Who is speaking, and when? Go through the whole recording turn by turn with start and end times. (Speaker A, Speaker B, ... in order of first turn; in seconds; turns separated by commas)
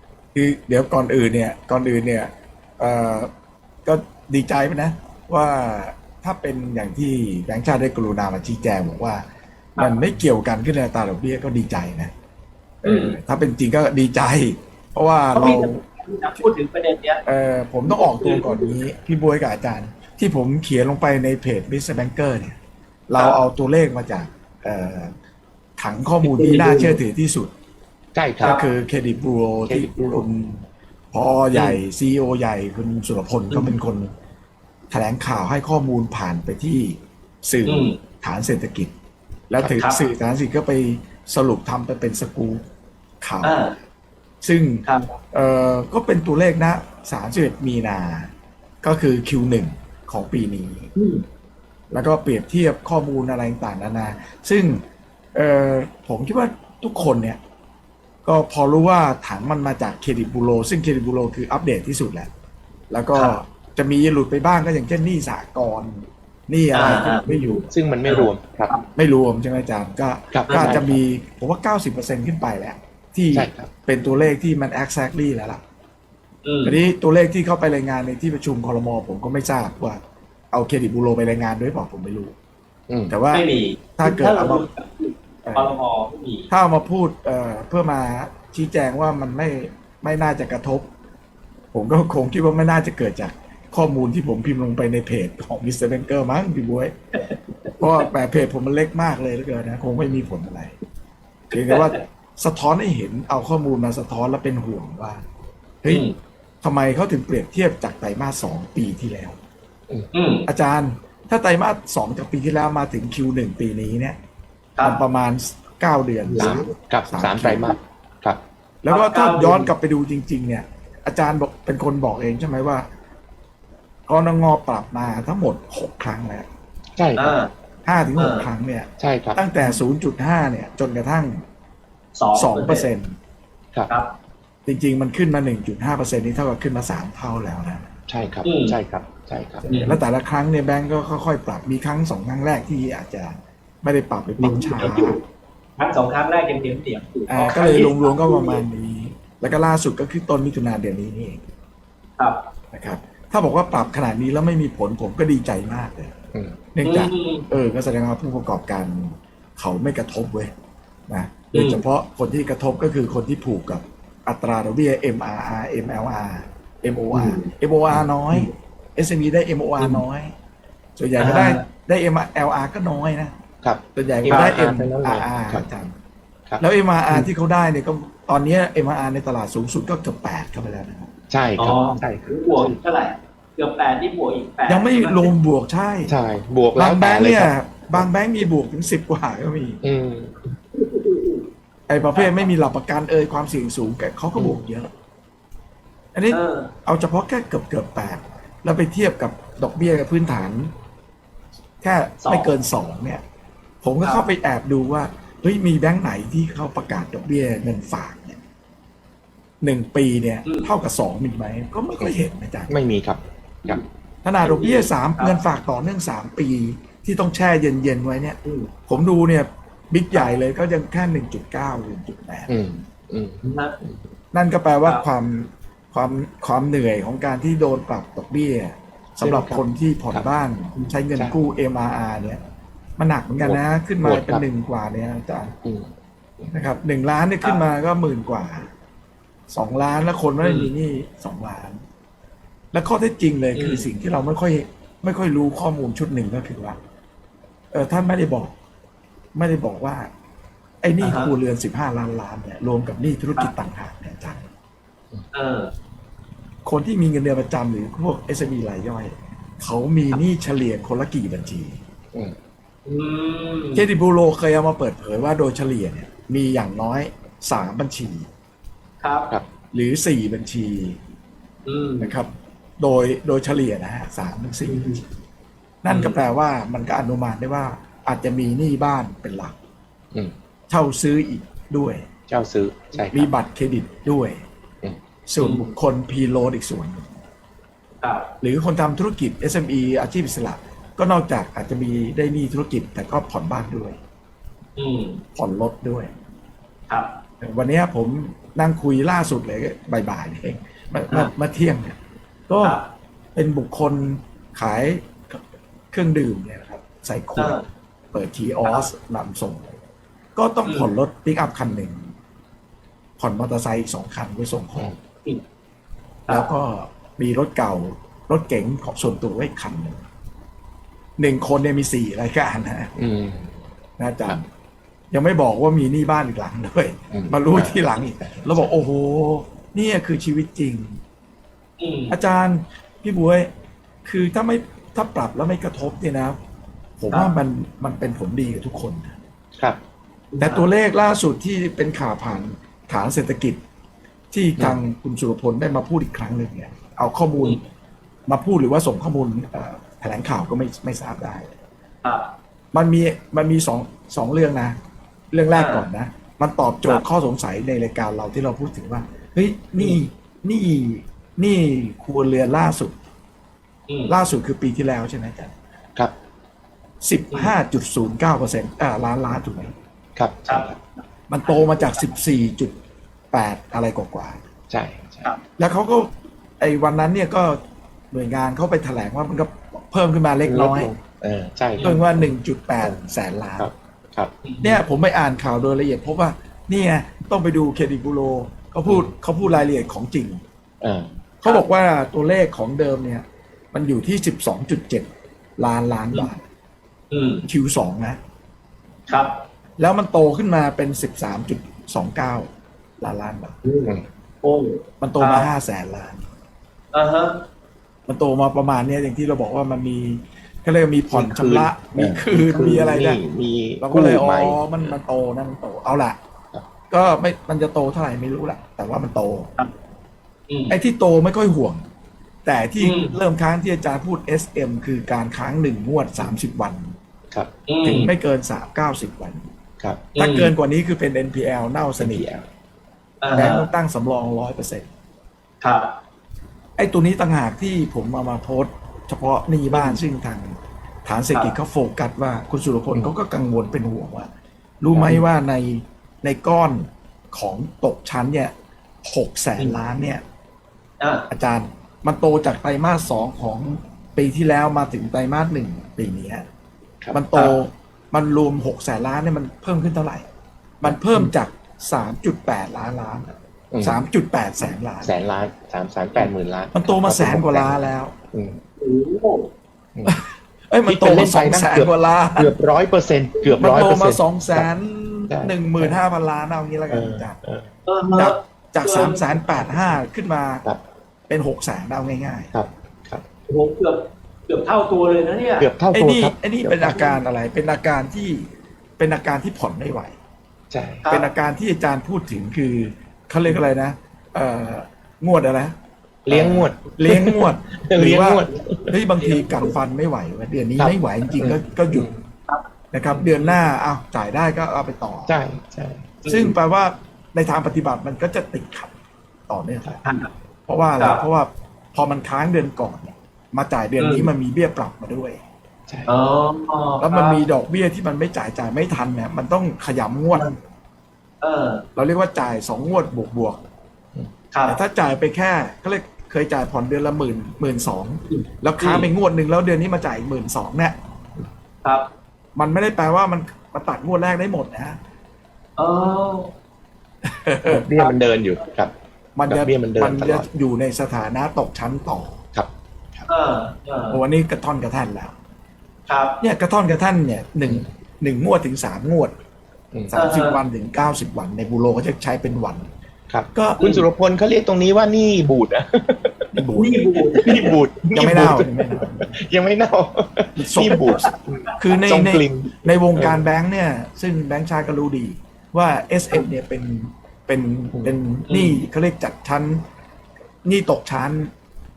Speaker A: 0.3-3.3, Speaker A: 3.9-9.2, Speaker B: 9.8-10.1, Speaker A: 9.8-12.1, Speaker A: 12.8-15.8, Speaker B: 12.8-13.2, Speaker B: 15.3-17.2, Speaker A: 17.2-22.6, Speaker B: 17.9-18.8, Speaker A: 23.1-25.1, Speaker B: 23.2-23.4, Speaker A: 25.8-27.5, Speaker B: 26.2-27.0, Speaker C: 28.1-28.6, Speaker A: 28.4-34.1, Speaker C: 29.7-30.2, Speaker B: 31.5-31.8, Speaker A: 34.9-38.9, Speaker B: 37.6-38.0, Speaker A: 39.5-42.6, Speaker B: 39.8-40.1, Speaker A: 43.2-43.7, Speaker B: 43.4-43.8, Speaker A: 44.4-48.3, Speaker B: 44.8-45.1, Speaker A: 48.8-50.9, Speaker B: 51.0-51.2, Speaker A: 51.9-54.8, Speaker A: 55.4-57.4, Speaker A: 58.2-62.3, Speaker A: 62.9-67.7, Speaker B: 66.7-68.9, Speaker C: 67.7-68.7, Speaker A: 69.0-75.6, Speaker C: 70.3-71.0, Speaker B: 70.5-70.8, Speaker C: 73.3-73.7, Speaker B: 76.4-76.8, Speaker A: 76.6-80.0, Speaker A: 80.5-82.3, Speaker C: 82.9-83.2, Speaker A: 83.1-84.7, Speaker B: 83.3-86.5, Speaker A: 85.5-85.8, Speaker A: 86.5-90.9, Speaker A: 91.7-96.9, Speaker A: 97.8-100.8, Speaker A: 101.5-105.2, Speaker B: 101.6-102.0, Speaker B: 105.9-106.2, Speaker A: 106.6-109.4, Speaker B: 110.1-110.5, Speaker A: 110.5-114.2, Speaker A: 114.8-117.7, Speaker B: 116.3-116.7, Speaker C: 116.3-118.4, Speaker A: 118.8-122.9, Speaker B: 118.9-119.7, Speaker A: 124.1-126.5, Speaker C: 127.0-127.3, Speaker B: 127.2-127.5, Speaker A: 127.8-131.4, Speaker B: 128.2-128.5, Speaker C: 129.0-129.6, Speaker B: 132.2-132.9, Speaker A: 132.3-133.2, Speaker A: 134.7-137.9, Speaker C: 138.1-140.0, Speaker B: 138.4-138.8, Speaker A: 139.7-145.2, Speaker B: 139.7-140.0, Speaker B: 144.4-145.2, Speaker B: 145.8-148.7, Speaker A: 147.3-151.4, Speaker A: 152.7-156.2, Speaker C: 156.3-156.6, Speaker A: 156.7-160.5, Speaker B: 156.8-157.5, Speaker A: 161.1-170.3, Speaker B: 161.5-161.8, Speaker B: 167.1-167.5, Speaker A: 171.0-173.3, Speaker B: 171.2-171.6, Speaker C: 173.6-175.7, Speaker A: 173.9-175.9, Speaker C: 176.5-177.3, Speaker A: 176.6-181.1, Speaker C: 181.3-182.8, Speaker B: 181.6-185.3, Speaker A: 184.7-186.2, Speaker C: 186.1-188.1, Speaker A: 186.8-189.8, Speaker C: 189.8-190.4, Speaker B: 190.8-191.4, Speaker A: 191.9-194.9, Speaker B: 192.1-192.5, Speaker A: 196.1-200.7, Speaker B: 196.3-196.7, Speaker A: 201.8-203.2, Speaker B: 202.2-202.5, Speaker A: 203.8-208.4, Speaker B: 204.0-204.3, Speaker A: 209.6-212.8, Speaker B: 210.4-210.7, Speaker C: 212.7-213.8, Speaker A: 214.2-222.5, Speaker B: 214.4-215.4, Speaker B: 218.4-218.7, Speaker C: 222.5-224.0, Speaker B: 223.4-223.8, Speaker A: 224.3-232.4, Speaker C: 229.2-230.3, Speaker A: 233.0-235.6, Speaker C: 233.4-234.4, Speaker C: 235.6-236.5, Speaker A: 236.5-238.7, Speaker A: 239.5-241.8, Speaker B: 240.4-240.7, Speaker A: 242.7-246.8, Speaker B: 243.6-243.9, Speaker A: 247.7-248.5, Speaker A: 249.3-250.1, Speaker A: 250.8-254.4, Speaker B: 251.0-251.3, Speaker B: 255.3-255.7, Speaker A: 256.7-261.8, Speaker B: 262.9-263.9, Speaker A: 263.7-268.3, Speaker B: 269.0-269.3, Speaker A: 269.7-271.0, Speaker B: 271.7-272.1, Speaker A: 272.0-275.0, Speaker B: 274.7-275.0, Speaker A: 275.8-279.6, Speaker B: 275.9-276.2, Speaker A: 280.7-282.1, Speaker C: 282.3-283.3, Speaker A: 283.0-284.4, Speaker A: 285.3-287.1, Speaker B: 285.4-285.7, Speaker B: 288.0-288.3, Speaker A: 288.4-294.0, Speaker B: 294.8-295.2, Speaker A: 295.4-296.1, Speaker A: 297.4-302.0, Speaker A: 302.5-302.8, Speaker B: 302.6-302.9, Speaker A: 303.4-309.8, Speaker B: 307.4-307.6, Speaker B: 308.6-308.9, Speaker A: 310.4-312.1, Speaker B: 310.6-310.9, Speaker A: 313.2-314.9, Speaker B: 316.3-316.5, Speaker A: 316.3-320.0, Speaker A: 321.2-322.9, Speaker C: 323.0-323.5, Speaker A: 324.0-324.4, Speaker A: 325.1-331.0, Speaker C: 327.1-328.7, Speaker B: 331.8-332.2, Speaker A: 332.1-333.5, Speaker A: 334.1-336.4, Speaker A: 337.0-339.1, Speaker B: 337.1-337.4, Speaker B: 340.3-340.7, Speaker A: 340.4-343.6, Speaker A: 344.3-347.6, Speaker A: 348.3-351.5, Speaker B: 352.0-352.3, Speaker A: 352.7-354.8, Speaker A: 355.3-363.0, Speaker B: 355.6-355.9, Speaker B: 363.9-364.1, Speaker A: 364.1-365.6, Speaker A: 367.0-369.7, Speaker C: 370.2-370.8, Speaker B: 370.5-372.1, Speaker A: 371.3-372.7, Speaker A: 373.3-374.4, Speaker C: 374.7-375.3, Speaker A: 375.6-376.1, Speaker A: 376.6-377.6, Speaker A: 378.1-380.9, Speaker C: 380.4-383.0, Speaker A: 381.8-383.7, Speaker B: 381.8-382.1, Speaker C: 383.6-384.3, Speaker B: 384.4-384.8, Speaker A: 384.6-390.4, Speaker C: 388.9-389.1, Speaker C: 390.8-391.1, Speaker A: 391.4-396.4, Speaker B: 397.1-397.4, Speaker A: 397.4-398.2, Speaker B: 399.1-399.4, Speaker A: 399.8-402.5, Speaker A: 403.0-403.6, Speaker B: 403.6-405.5, Speaker A: 405.0-406.3, Speaker B: 406.9-407.4, Speaker A: 408.1-413.2, Speaker C: 411.1-415.0, Speaker A: 413.8-416.2, Speaker A: 416.9-419.5, Speaker B: 420.5-420.8, Speaker A: 420.7-421.8, Speaker A: 422.4-426.9, Speaker B: 422.8-423.2, Speaker B: 427.7-428.1, Speaker A: 427.8-429.4, Speaker C: 429.8-430.1, Speaker A: 430.1-432.3, Speaker B: 430.1-430.5, Speaker C: 432.0-432.5, Speaker B: 433.2-433.7, Speaker A: 433.3-434.9, Speaker B: 435.6-435.9, Speaker A: 436.8-440.5, Speaker A: 441.1-444.3, Speaker A: 444.8-448.5, Speaker C: 444.9-445.2, Speaker A: 449.0-450.2, Speaker B: 451.0-451.3, Speaker A: 451.3-456.4, Speaker A: 457.1-460.3, Speaker B: 457.3-457.6, Speaker A: 460.8-465.1, Speaker C: 460.9-461.3, Speaker C: 463.7-464.0, Speaker C: 465.0-468.6, Speaker A: 466.2-468.1, Speaker B: 468.8-469.5, Speaker A: 470.1-472.5, Speaker C: 470.9-474.7, Speaker A: 473.6-477.4, Speaker C: 475.3-476.0, Speaker C: 476.9-477.7, Speaker B: 477.9-479.5, Speaker A: 478.1-480.7, Speaker A: 481.3-482.5, Speaker C: 482.5-483.2, Speaker B: 483.5-485.7, Speaker C: 485.6-487.2, Speaker A: 485.9-488.5, Speaker A: 489.0-490.1, Speaker C: 490.7-491.1, Speaker B: 491.0-491.3, Speaker A: 491.1-495.7, Speaker C: 496.3-499.0, Speaker A: 496.3-502.1, Speaker B: 499.2-499.7, Speaker C: 500.8-502.2, Speaker B: 502.5-503.7, Speaker A: 502.9-505.4, Speaker C: 505.3-506.2, Speaker B: 506.2-506.5, Speaker A: 506.3-508.9, Speaker A: 509.5-510.0, Speaker B: 510.0-510.3, Speaker A: 510.7-515.4, Speaker B: 511.0-511.2, Speaker B: 514.0-514.3, Speaker C: 515.9-516.1, Speaker B: 516.1-517.4, Speaker A: 517.0-520.5, Speaker B: 521.4-521.9, Speaker A: 522.0-523.6, Speaker B: 524.5-524.8, Speaker A: 524.7-531.0, Speaker B: 528.3-529.1, Speaker A: 532.6-535.0, Speaker B: 535.8-536.5, Speaker A: 537.2-537.9, Speaker C: 537.6-538.9, Speaker A: 539.4-542.4, Speaker C: 539.5-540.5, Speaker B: 543.3-544.2, Speaker A: 544.1-545.3, Speaker B: 546.1-546.4, Speaker A: 546.4-549.3, Speaker A: 550.1-552.9, Speaker B: 550.1-550.6, Speaker C: 553.3-556.6, Speaker A: 553.5-554.0, Speaker A: 556.5-557.3, Speaker B: 556.8-557.8, Speaker C: 557.2-563.5, Speaker A: 558.1-559.3, Speaker A: 560.6-561.0, Speaker B: 561.0-561.3, Speaker A: 561.8-569.8, Speaker B: 568.5-568.8, Speaker A: 570.6-571.5